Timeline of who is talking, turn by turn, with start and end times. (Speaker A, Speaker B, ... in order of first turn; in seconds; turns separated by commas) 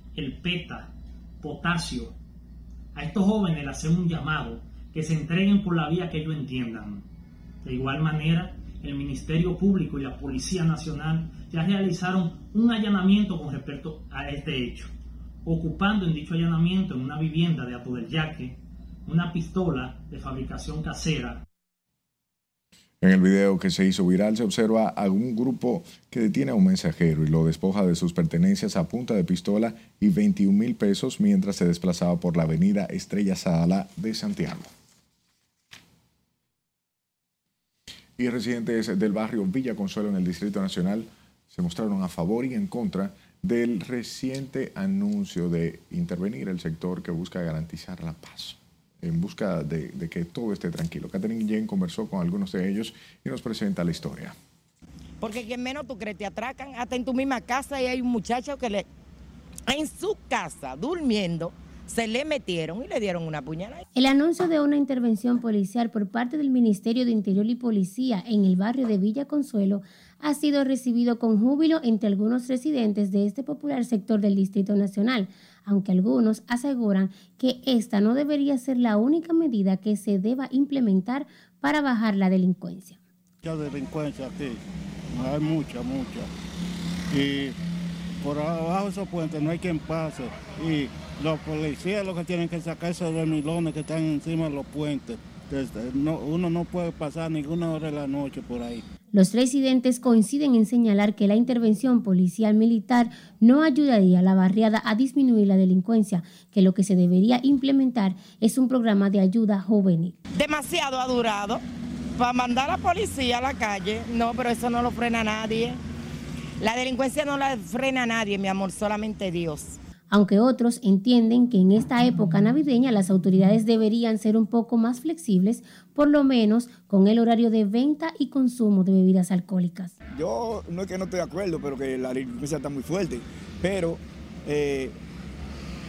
Speaker A: 0.1-2.1, Speaker A: 2.9-7.1, Speaker A: 7.6-14.9, Speaker A: 15.4-21.4, Speaker B: 23.0-34.7, Speaker B: 38.2-54.4, Speaker C: 55.2-58.9, Speaker C: 59.7-63.8, Speaker D: 64.0-83.0, Speaker E: 83.4-86.3, Speaker E: 87.1-87.6, Speaker E: 88.2-98.9, Speaker D: 99.1-110.2, Speaker C: 110.3-111.6, Speaker C: 112.2-115.8, Speaker C: 116.6-119.8, Speaker D: 120.1-129.9, Speaker F: 130.2-134.9